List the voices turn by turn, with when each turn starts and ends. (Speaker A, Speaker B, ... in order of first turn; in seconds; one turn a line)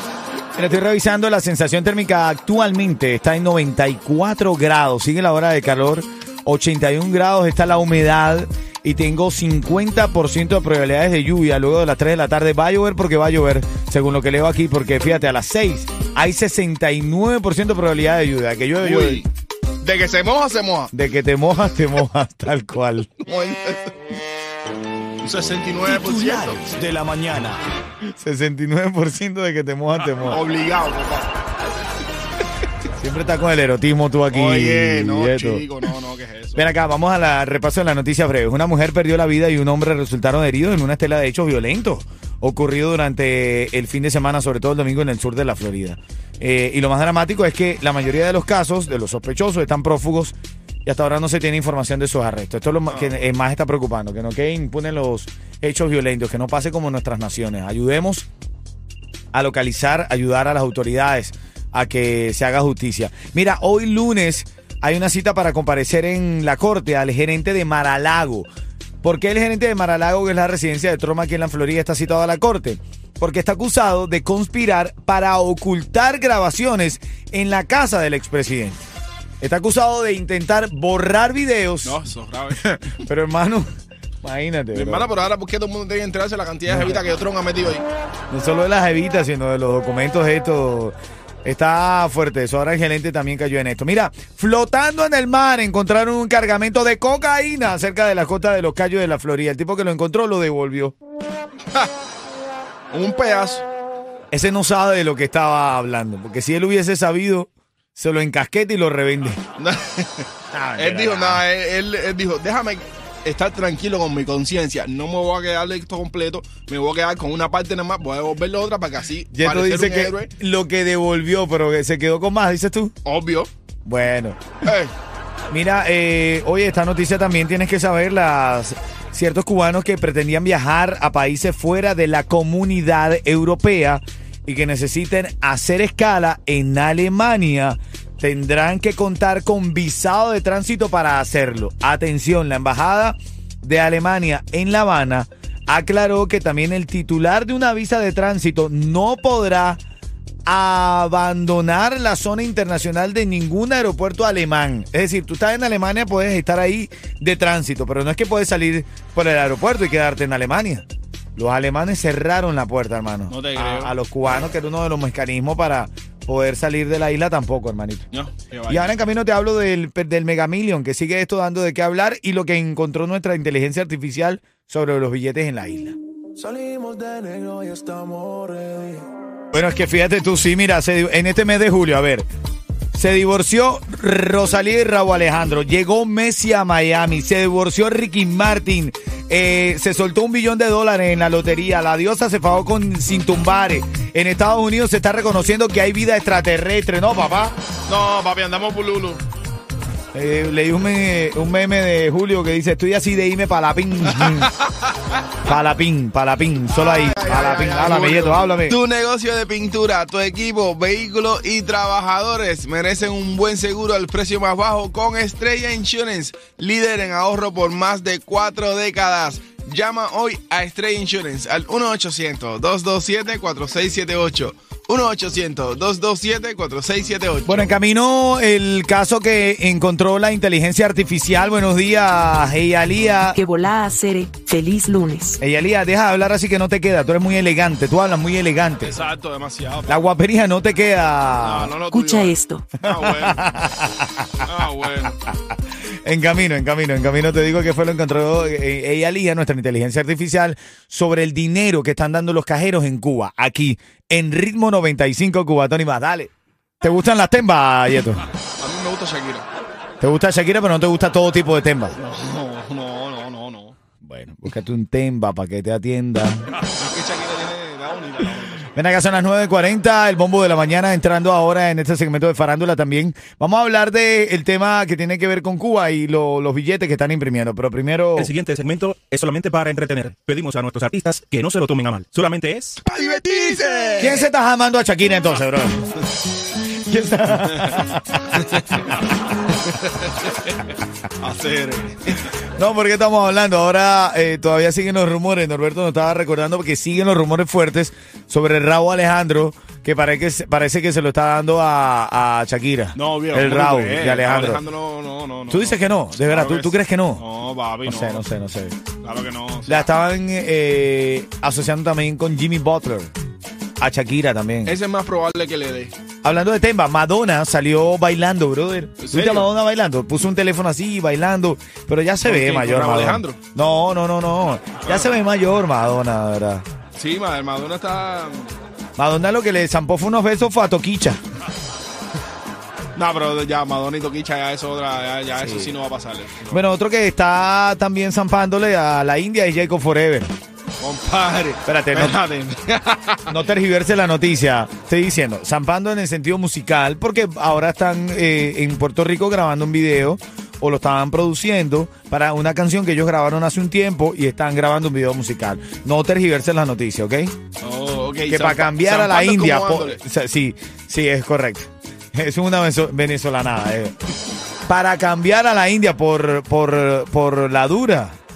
Speaker A: 0.6-19.2
Speaker B: 18.8-19.3
Speaker B: 19.8-20.9
Speaker A: 20.9-23.1
Speaker B: 23.2-23.9
Speaker B: 25.2-26.7
Speaker A: 25.9-30.4
Speaker B: 30.2-31.3
Speaker A: 33.0-35.6
Speaker B: 34.3-36.7
Speaker A: 36.6-58.3
Speaker B: 52.9-53.2
Speaker A: 59.3-68.5
Speaker A: 69.0-78.8
Speaker A: 79.4-82.0
Speaker B: 81.8-82.7
Speaker A: 82.5-83.7
Speaker A: 84.2-85.1
Speaker B: 84.7-87.9
Speaker A: 86.7-87.0
Speaker A: 88.3-101.0
Speaker B: 102.9-103.7
Speaker A: 104.3-109.4
Speaker B: 109.6-120.3
Speaker A: 110.5-111.4
Speaker A: 119.3-122.9
Speaker B: 123.0-123.5
Speaker A: 123.9-124.7
Speaker B: 124.6-124.9
Speaker A: 125.5-149.8
Speaker A: 150.5-160.8
Speaker A: 161.4-168.1
Speaker B: 163.3-163.9
Speaker B: 168.1-168.9
Speaker A: 168.7-176.0
Speaker C: 176.4-179.1
Speaker A: 179.5-182.3
Speaker A: 182.9-197.6
Speaker B: 197.9-199.2
Speaker A: 200.1-204.5
Speaker B: 204.1-205.0
Speaker A: 205.5-208.8
Speaker B: 206.7-227.7
Speaker A: 227.5-233.4
Speaker D: 233.3-235.4
Speaker A: 235.4-238.9
Speaker B: 238.8-240.1
Speaker A: 239.9-241.7
Speaker B: 241.4-243.5
Speaker D: 241.9-242.7
Speaker A: 242.8-244.4
Speaker B: 244.4-245.2
Speaker A: 245.2-258.3
Speaker B: 258.6-259.5
Speaker A: 260.0-262.0
Speaker B: 262.0-263.8
Speaker A: 264.0-266.5
Speaker B: 266.6-268.7
Speaker A: 268.7-278.3
Speaker E: 278.2-282.8
Speaker B: 282.8-284.3
Speaker A: 284.0-285.8
Speaker A: 286.8-288.2
Speaker B: 288.4-288.8
Speaker B: 289.7-290.6
Speaker B: 291.2-292.2
Speaker A: 292.6-304.6
Speaker B: 302.9-308.2
Speaker A: 305.5-307.2
Speaker A: 307.9-308.8
Speaker B: 309.0-309.9
Speaker A: 309.7-313.1
Speaker A: 313.8-314.8
Speaker B: 314.7-315.9
Speaker A: 316.2-326.6
Speaker B: 319.0-319.5
Speaker B: 322.2-323.4
Speaker B: 324.8-325.2
Speaker B: 327.0-328.5
Speaker A: 329.0-331.2
Speaker B: 332.9-336.6
Speaker A: 335.4-335.8
Speaker A: 336.5-340.3
Speaker B: 340.8-343.3
Speaker A: 341.7-342.2
Speaker A: 343.3-357.4
Speaker B: 357.6-360.0
Speaker A: 358.3-363.9
Speaker A: 364.7-368.2